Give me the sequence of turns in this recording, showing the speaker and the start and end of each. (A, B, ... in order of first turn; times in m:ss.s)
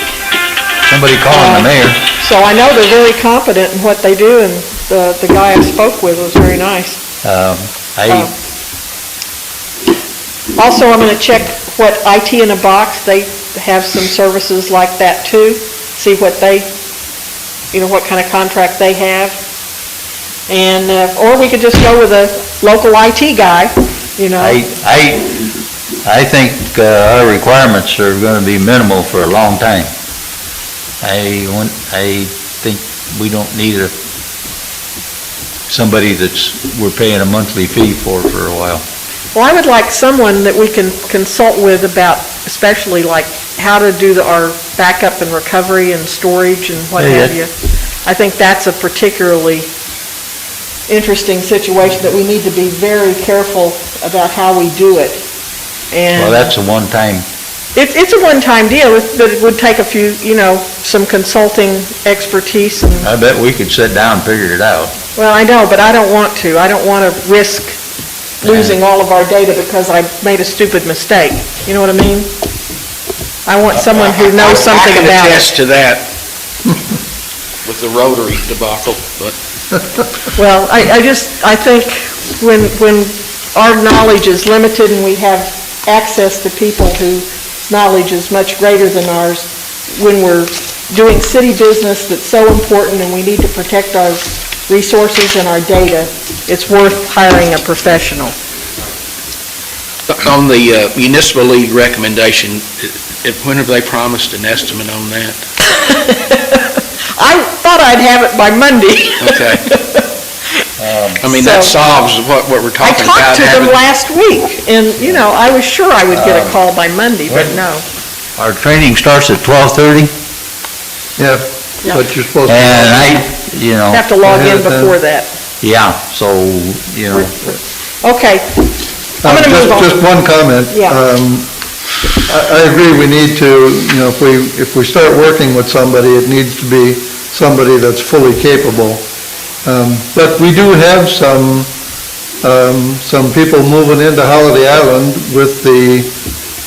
0:00.8-0:02.0 A
0:01.3-0:07.0 B
0:07.2-0:08.3 A
0:10.6-0:16.7 B
0:17.7-0:19.4 B
0:20.5-0:24.6 B
0:24.4-0:29.9 A
0:31.0-0:33.9 A
0:35.7-0:38.8 A
0:39.3-0:47.5 B
0:47.0-0:47.4 A
0:48.0-0:49.7 B
0:50.9-0:55.2 B
0:55.9-0:56.5 B
0:56.1-0:57.2 A
0:57.7-1:03.1 B
1:03.0-1:05.0 A
1:05.2-1:07.8 B
1:08.4-1:12.3 B
1:08.4-1:08.8 A
1:13.4-1:15.5 B
1:13.9-1:16.0 C
1:17.6-1:19.3 C
1:20.4-1:38.4 B
1:40.1-1:45.4 C
1:45.6-1:50.1 B
1:49.2-1:49.6 C
1:50.8-1:51.2 A
1:51.2-1:53.8 C
1:51.2-1:51.8 B
1:52.8-1:57.8 B
1:56.1-1:56.6 A
1:57.3-1:57.6 A
1:58.4-2:00.1 A
2:01.2-2:03.3 D
2:02.5-2:04.0 A
2:03.9-2:05.3 B
2:04.2-2:05.0 D
2:05.6-2:07.6 A
2:08.0-2:08.7 B
2:09.2-2:11.5 D
2:09.2-2:09.9 B
2:10.7-2:11.0 B
2:12.2-2:19.0 D
2:19.6-2:21.7 D
2:22.4-2:26.1 D